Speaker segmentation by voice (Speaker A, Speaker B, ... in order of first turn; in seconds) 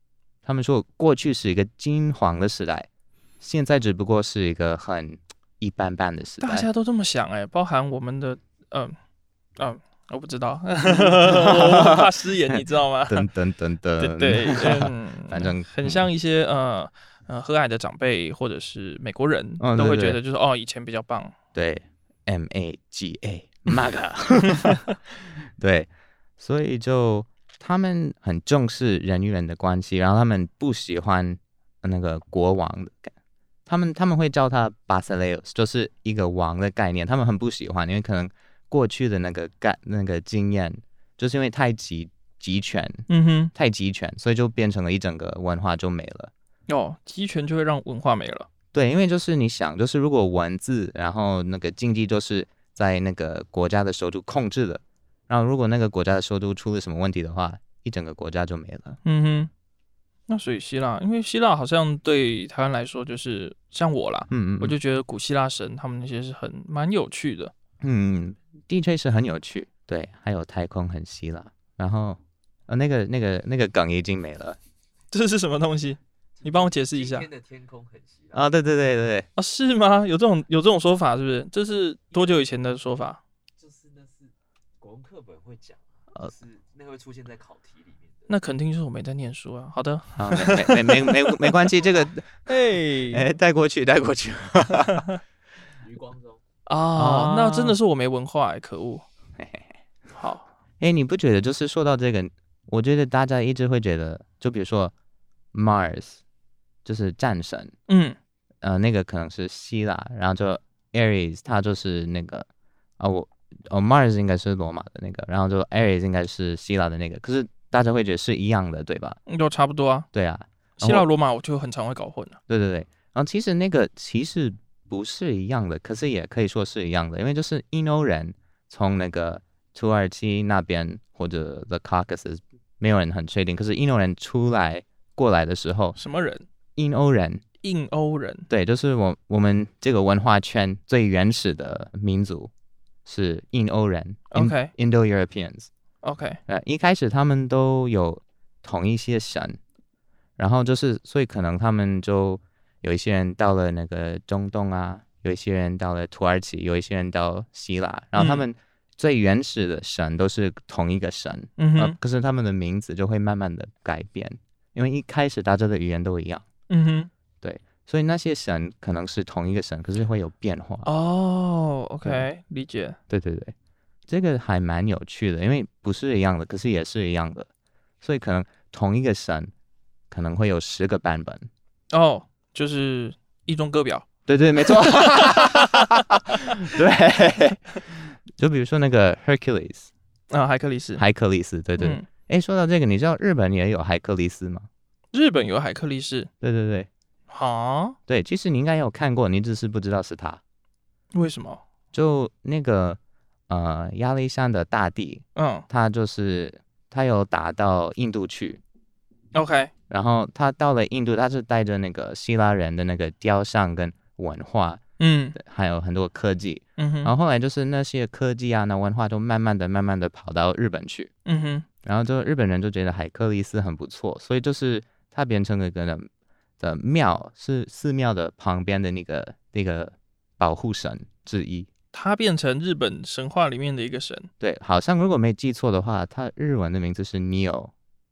Speaker A: 0.4-2.9, 3.4-6.7, 10.9-12.0, 13.1-16.0, 19.6-20.2, 21.5-33.1, 33.7-46.3, 48.7-59.0, 64.3-64.8, 67.8-74.6, 78.3-79.2, 90.2-92.4, 93.1-95.1, 97.0-97.8, 99.4-99.7, 100.8-104.9, 105.5-106.2, 106.8-107.7, 108.6-112.5, 113.0-119.2, 120.1-121.1, 122.5-135.9, 136.8-137.4, 138.5-142.5, 143.1-145.7, 146.5-149.6, 150.4-166.4, 167.4-170.9, 172.0-172.3, 173.1-173.5, 174.1-177.5, 178.0-179.5, 180.1-181.5, 184.3-189.9, 191.0-194.7, 196.4-196.9, 198.1-200.4, 201.9-208.6, 209.9-214.8, 215.3-221.1, 221.8-226.1, 226.6-231.7, 234.4-237.7
Speaker B: 6.4-8.9, 9.6-13.3, 14.0-21.3, 43.1-43.5, 46.7-48.5, 59.0-59.5, 60.3-67.5, 75.1-77.3, 79.3-83.2, 88.3-91.6, 92.5-93.2, 96.7-99.0, 100.2-100.5, 107.9-108.2, 119.3-120.1, 120.8-122.4, 135.9-136.5, 137.6-138.5, 144.3-144.7, 146.0-146.4, 158.2-158.4, 161.6-161.9, 166.7-167.1, 170.8-173.0, 181.9-184.1, 184.6-186.6, 190.3-191.0, 191.8-192.1, 195.1-196.3, 197.3-198.0, 201.1-201.6, 205.3-205.7, 209.3-209.7, 215.0-215.4, 216.8-217.1, 221.2-221.7, 231.9-234.3
Speaker C: 76.4-78.5, 83.6-88.3, 95.8-96.4